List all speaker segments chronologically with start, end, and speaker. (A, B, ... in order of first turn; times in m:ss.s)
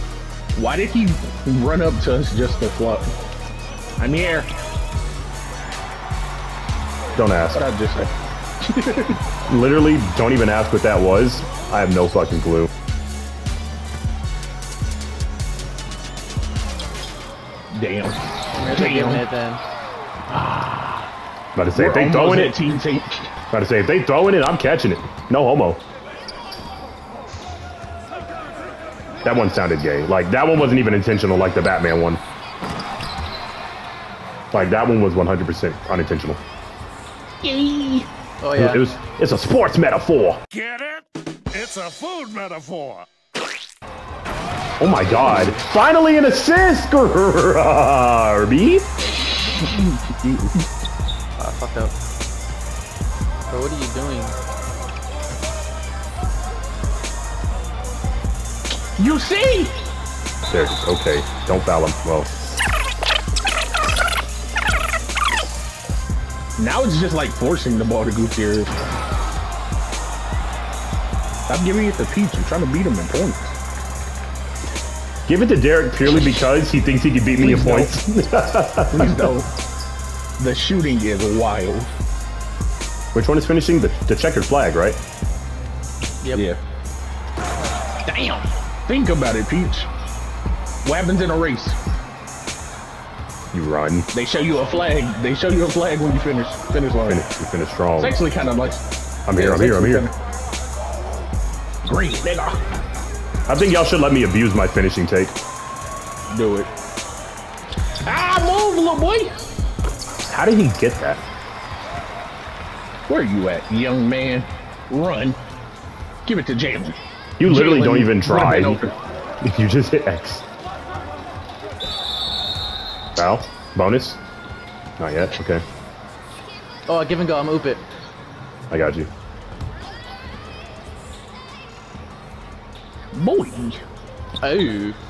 0:00.6-0:03.1 A
0:04.0-0:04.5 A
0:07.2-0:07.7 B
0:07.5-0:08.1 A
0:08.6-0:09.2 A
0:09.5-0:12.7 B
0:17.7-0:19.3 A
0:18.5-0:19.6 C
0:21.6-0:22.6 B
0:21.7-0:23.3 A
0:23.5-0:25.8 B
0:29.2-0:32.2 B
0:34.5-0:36.4 B
0:37.4-0:38.1 A
0:38.4-0:38.9 C
0:38.6-0:40.4 B
0:40.6-0:43.1 D
0:44.8-0:48.9 B
0:49.6-0:50.6 A
0:51.4-0:52.0 C
0:53.5-0:54.4 C
0:59.0-0:59.8 A
1:00.5-1:02.3 B
1:06.6-1:08.7 A
1:11.5-1:13.5 A
1:15.3-1:19.3 B
1:17.4-1:18.0 A
1:18.9-1:19.5 A
1:20.4-1:21.9 A
1:23.1-1:25.0 B
1:26.2-1:26.5 C
1:28.1-1:29.9 A
1:30.8-1:31.8 A
1:33.5-1:34.1 B
1:34.1-1:37.2 A
1:37.1-1:38.2 B
1:38.0-1:38.8 A
1:39.3-1:40.1 B
1:39.3-1:40.1 A
1:41.8-1:42.6 A
1:43.5-1:45.4 B
1:46.3-1:46.7 A
1:48.1-1:49.4 A
1:50.3-1:51.2 B
1:53.1-1:55.4 A
1:56.2-1:58.9 A
1:57.4-1:58.8 B
1:59.4-2:00.4 B
2:03.2-2:04.2 B
2:05.0-2:05.6 B
2:06.9-2:07.8 C
2:08.7-2:09.1 B
2:13.2-2:13.8 A
2:14.4-2:15.0 C